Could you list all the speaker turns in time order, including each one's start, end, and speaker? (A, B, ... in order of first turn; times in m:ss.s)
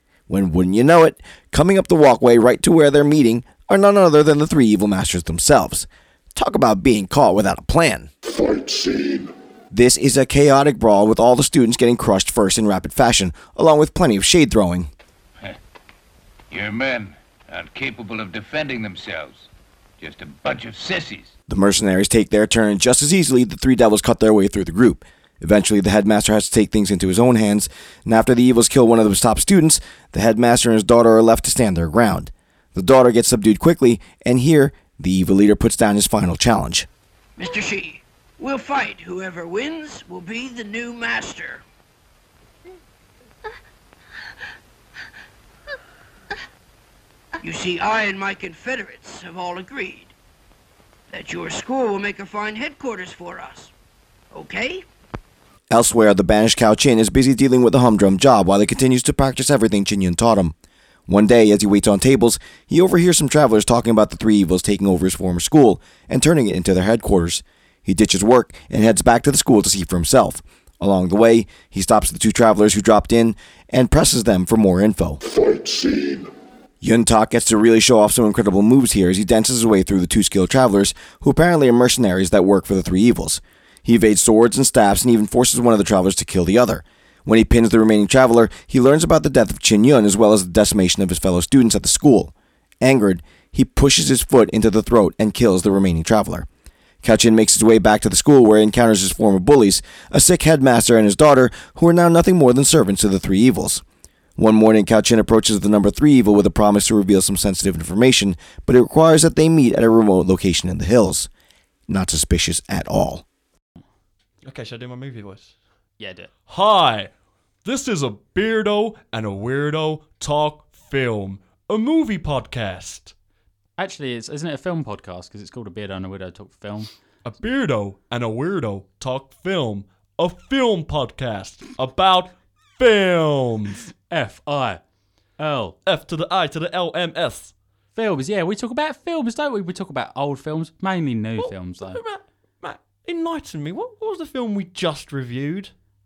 0:00.3-0:08.1 A
0:09.7-0:14.9 A
0:16.5-0:21.3 B
0:21.5-0:36.9 A
0:37.4-0:41.6 C
0:47.4-0:50.1 C
0:51.1-0:53.7 C
0:54.3-0:54.8 C
0:55.7-1:00.5 A
1:01.1-1:15.2 A
1:16.8-1:36.5 A
1:37.0-1:43.8 A
1:44.4-1:51.3 A
1:51.9-1:53.2 A
1:54.4-1:55.5 D
1:56.0-1:56.3 E
1:56.4-1:57.1 D
1:57.6-2:03.1 D
2:03.8-2:07.0 E
2:07.2-2:13.9 D
2:14.0-2:15.8 E
2:15.8-2:17.5 D
2:17.9-2:22.0 E
2:21.3-2:25.7 D